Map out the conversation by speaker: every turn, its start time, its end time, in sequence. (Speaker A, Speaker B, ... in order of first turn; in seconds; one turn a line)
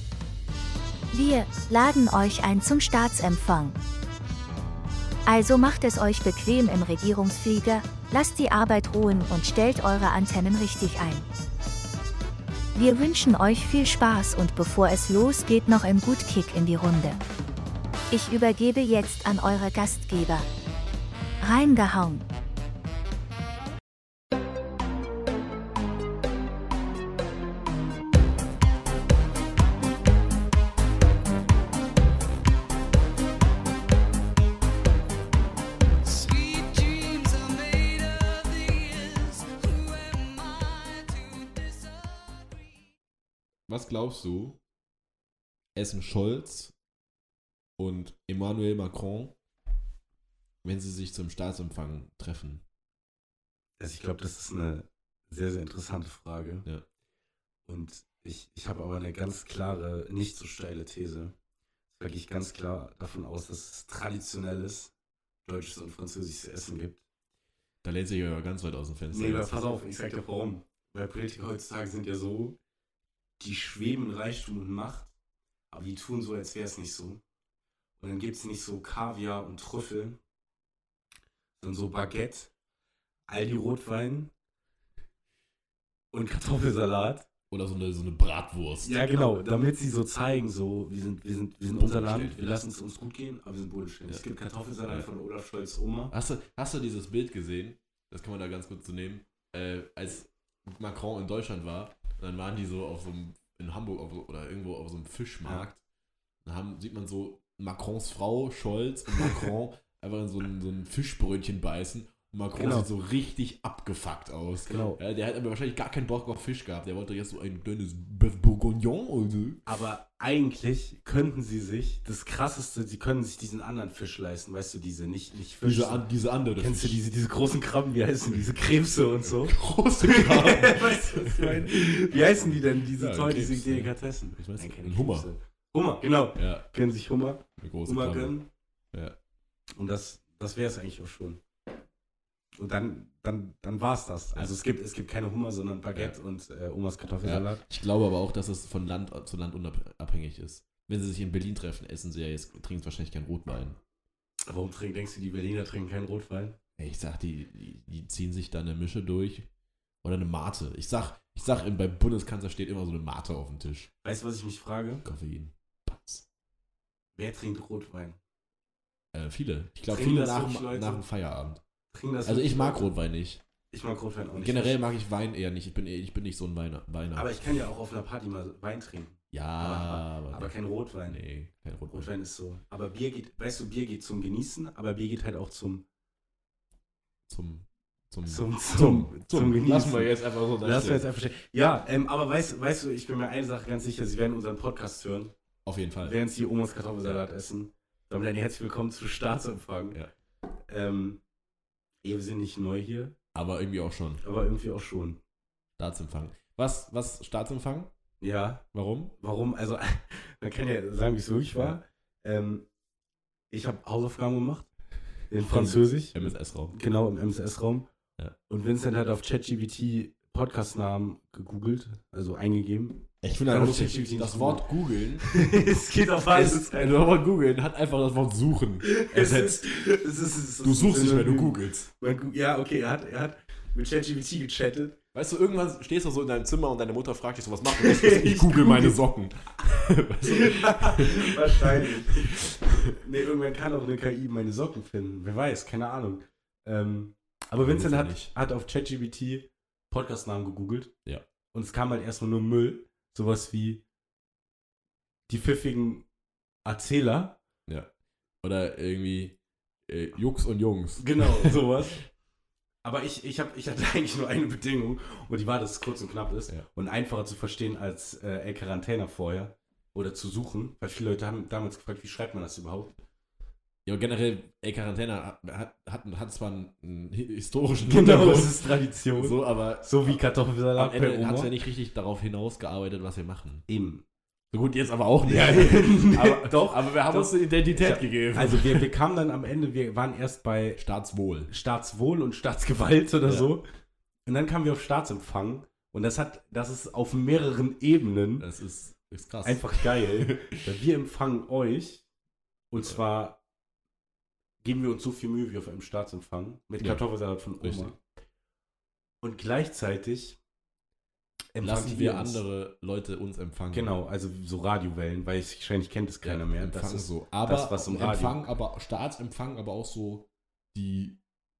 Speaker A: 1.1-3.8
Speaker A: 5.3-11.2
Speaker A: 12.8-17.2
Speaker A: 18.1-20.5
Speaker A: 21.4-22.3
Speaker B: 36.0-42.9
Speaker C: 43.7-44.6
Speaker C: 45.8-46.7
Speaker C: 47.8-49.4
Speaker C: 50.6-52.6
Speaker D: 53.8-56.7
Speaker D: 57.7-61.3
Speaker D: 62.0-64.9
Speaker D: 65.5-67.0
Speaker C: 67.8-69.5
Speaker D: 69.1-72.6
Speaker D: 73.4-75.1
Speaker D: 75.7-77.2
Speaker D: 78.0-80.2
Speaker D: 81.6-82.5
Speaker D: 83.3-84.3
Speaker D: 86.1-87.3
Speaker C: 87.5-89.1
Speaker D: 88.8-96.1
Speaker C: 91.8-92.5
Speaker C: 96.1-105.8
Speaker C: 106.4-119.7
Speaker D: 112.5-112.9
Speaker D: 114.7-115.0
Speaker D: 119.7-138.5
Speaker C: 125.6-127.0
Speaker C: 129.2-135.3
Speaker C: 136.4-136.7
Speaker C: 137.6-138.4
Speaker D: 139.8-141.4
Speaker D: 142.6-147.7
Speaker C: 147.2-153.8
Speaker D: 154.5-156.6
Speaker C: 156.8-159.5
Speaker C: 160.0-163.9
Speaker D: 164.0-165.0
Speaker C: 165.0-166.2
Speaker D: 167.2-168.2
Speaker C: 169.1-171.6
Speaker D: 169.9-171.1
Speaker D: 171.9-172.9
Speaker C: 172.3-173.4
Speaker D: 173.7-174.8
Speaker C: 174.4-177.3
Speaker D: 177.2-181.2
Speaker C: 179.3-180.6
Speaker C: 181.1-182.1
Speaker D: 181.9-185.8
Speaker C: 187.3-191.1
Speaker D: 188.3-195.3
Speaker C: 195.7-196.2
Speaker D: 196.0-200.0
Speaker D: 200.7-201.2
Speaker D: 202.0-203.2
Speaker C: 203.3-204.2
Speaker D: 204.2-205.2
Speaker C: 205.8-207.9
Speaker D: 208.2-208.7
Speaker C: 208.7-209.2
Speaker D: 209.2-212.7
Speaker C: 211.5-211.8
Speaker D: 213.5-214.7
Speaker D: 215.3-217.9
Speaker C: 215.5-216.8
Speaker D: 218.5-224.7
Speaker C: 223.2-225.3
Speaker D: 225.2-227.1
Speaker C: 226.3-229.7
Speaker D: 228.8-235.0
Speaker C: 230.6-231.9
Speaker C: 235.1-243.0
Speaker D: 237.7-239.0
Speaker D: 240.2-250.9
Speaker C: 247.6-248.3
Speaker D: 251.5-253.8
Speaker D: 255.3-256.1
Speaker D: 256.6-257.4
Speaker C: 258.4-261.6
Speaker D: 261.0-262.1
Speaker D: 262.8-273.0
Speaker C: 273.9-280.2
Speaker D: 277.9-281.5
Speaker C: 280.8-283.7
Speaker D: 283.7-284.0
Speaker C: 284.5-288.9
Speaker D: 285.2-290.8
Speaker C: 290.8-291.5
Speaker D: 291.5-293.7
Speaker C: 293.2-293.6
Speaker D: 294.3-298.5
Speaker C: 298.4-300.6
Speaker D: 299.4-302.1
Speaker D: 302.7-303.4
Speaker D: 304.6-308.0
Speaker C: 307.6-307.9
Speaker D: 309.2-310.4
Speaker D: 311.5-312.4
Speaker C: 311.6-313.9
Speaker D: 313.7-318.4
Speaker C: 316.2-321.2